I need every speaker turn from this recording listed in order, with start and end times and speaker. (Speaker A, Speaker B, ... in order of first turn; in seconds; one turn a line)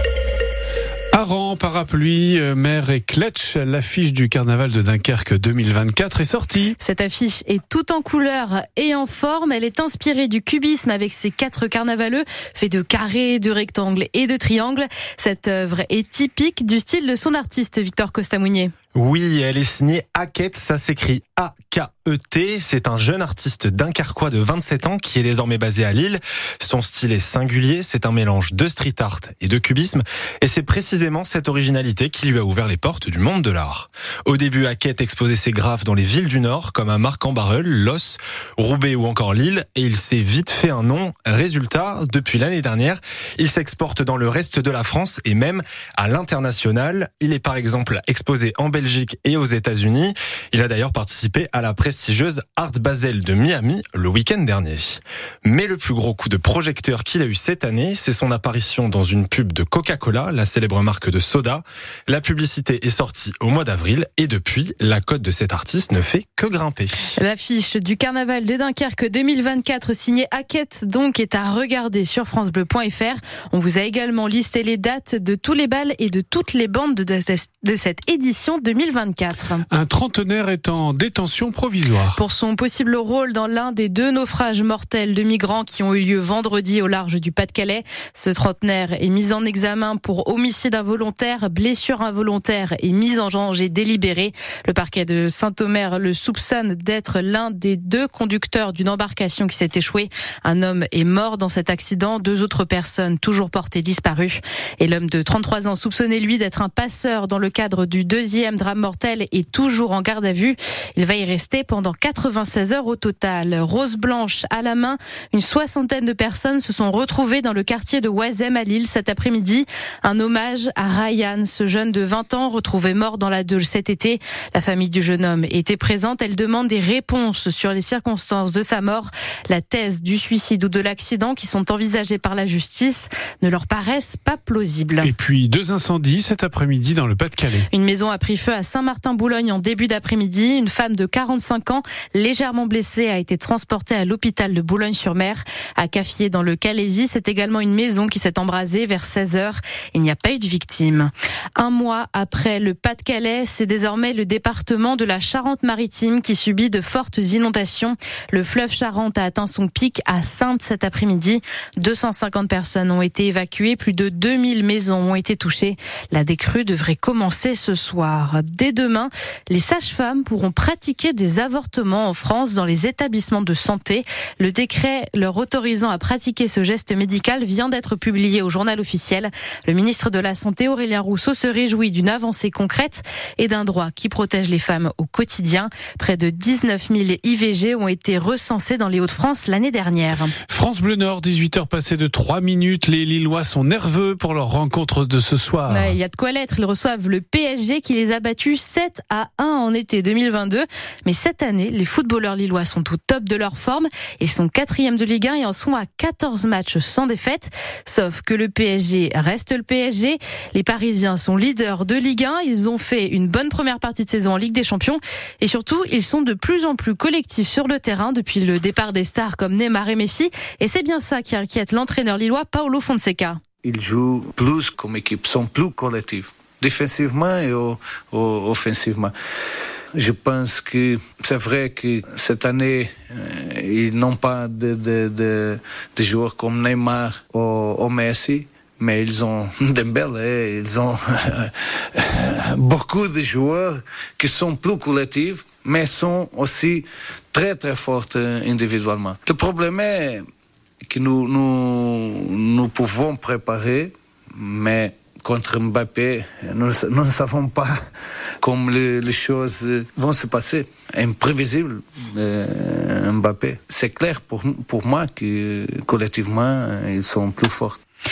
Speaker A: 1.1-6.8
Speaker B: 6.8-18.7
Speaker C: 18.9-67.0
Speaker B: 67.2-79.7
Speaker A: 79.7-82.2
Speaker B: 82.2-135.1
Speaker A: 135.0-137.7
Speaker B: 137.7-190.3
Speaker A: 190.5-196.0
Speaker B: 195.7-223.4
Speaker D: 223.6-229.1
Speaker D: 230.0-250.2
Speaker D: 250.9-257.7
Speaker D: 258.4-267.8